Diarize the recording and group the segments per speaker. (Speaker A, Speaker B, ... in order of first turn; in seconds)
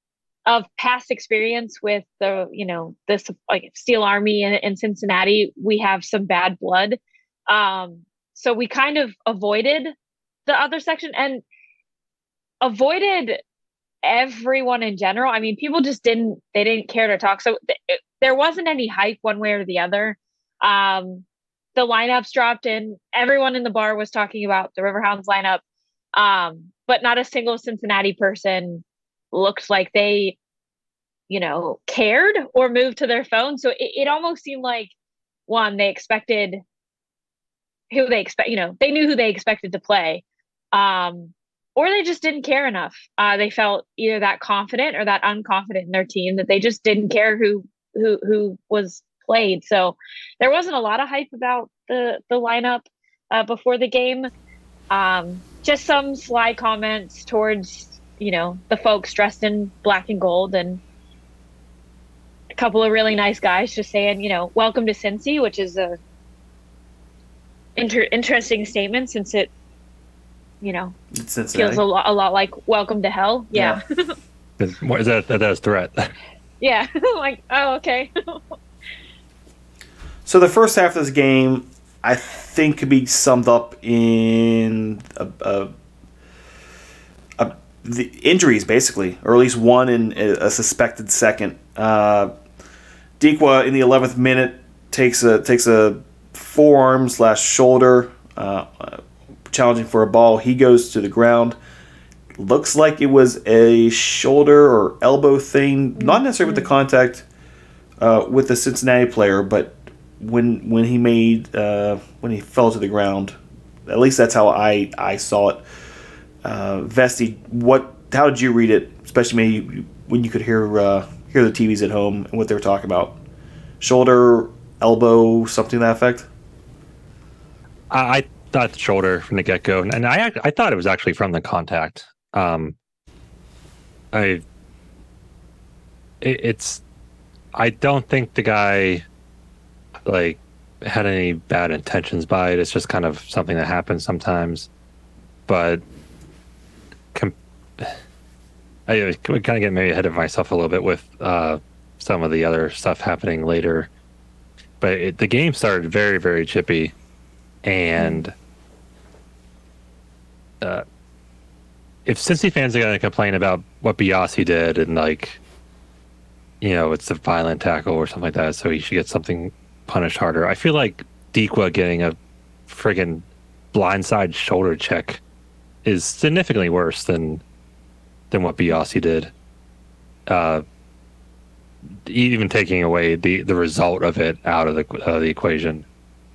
Speaker A: 0.5-9.9, 10.5-11.4, 12.6-13.4, 14.0-25.6, 26.2-30.4, 31.3-34.9, 35.5-36.6, 37.9-54.3, 54.9-60.8, 62.5-66.0, 67.8-69.5, 70.6-71.0, 71.5-74.1, 76.6-78.6, 106.0-106.7, 158.0-158.3
Speaker B: 71.1-71.8, 73.5-73.8, 80.3-85.7, 87.4-92.3, 93.2-101.6, 102.4-107.2, 108.0-113.4, 113.9-115.6, 116.4-123.2, 123.8-126.3
Speaker C: 74.6-76.1, 127.9-132.8, 134.1-134.4, 136.2-136.8, 137.5-139.0, 140.1-144.7, 145.5-145.8, 147.1-148.0, 148.9-153.9, 154.8-156.9, 157.6-158.3, 162.1-165.4, 166.6-172.2, 172.7-175.2, 175.8-177.4, 178.3-179.3, 180.3-180.6, 182.1-185.9